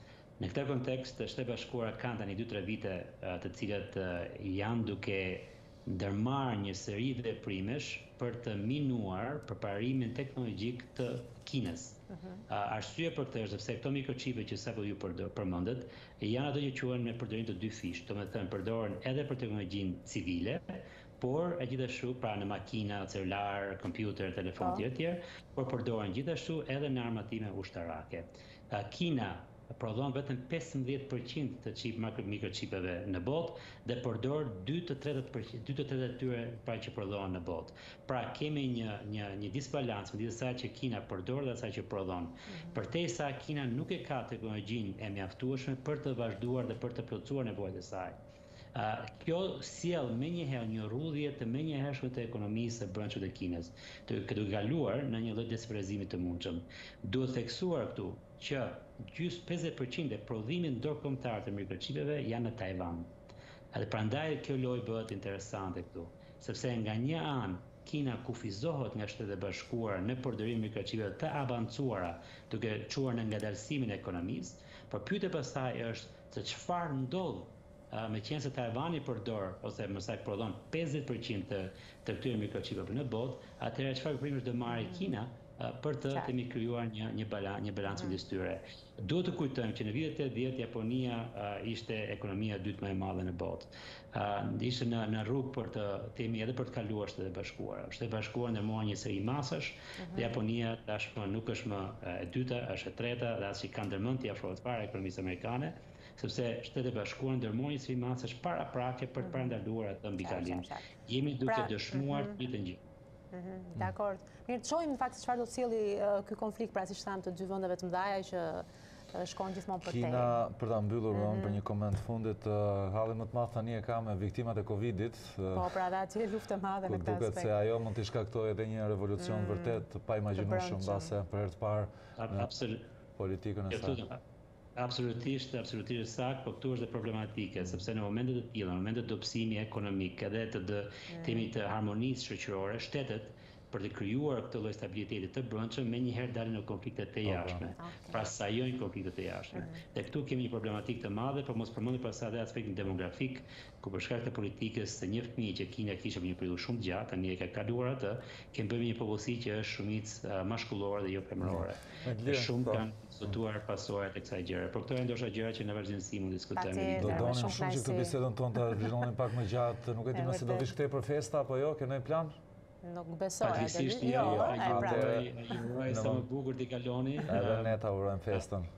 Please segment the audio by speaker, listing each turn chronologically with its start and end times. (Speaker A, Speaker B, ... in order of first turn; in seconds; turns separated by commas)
Speaker A: 0.4-48.2, Speaker B: 12.1-12.4, Speaker B: 24.6-24.9, Speaker B: 42.5-42.8, Speaker A: 48.8-63.1, Speaker A: 63.7-112.8, Speaker B: 84.7-85.1, Speaker B: 87.9-88.2, Speaker B: 100.0-100.4, Speaker B: 109.2-109.6, Speaker B: 110.2-110.9, Speaker B: 111.5-112.4, Speaker B: 113.3-120.4, Speaker C: 119.8-125.7, Speaker B: 121.1-121.6, Speaker B: 125.5-127.5, Speaker C: 126.8-132.5, Speaker B: 129.2-131.1, Speaker A: 132.2-132.9, Speaker C: 133.2-134.0, Speaker A: 133.7-134.2, Speaker A: 134.8-167.4, Speaker B: 141.1-141.5, Speaker C: 147.2-147.6, Speaker B: 147.8-148.3, Speaker B: 149.5-149.8, Speaker C: 161.4-163.3, Speaker B: 166.6-168.9, Speaker C: 167.0-172.4, Speaker B: 170.1-170.7, Speaker B: 172.8-175.1, Speaker A: 173.4-177.8, Speaker C: 174.0-175.3, Speaker C: 175.9-176.3, Speaker C: 177.3-178.7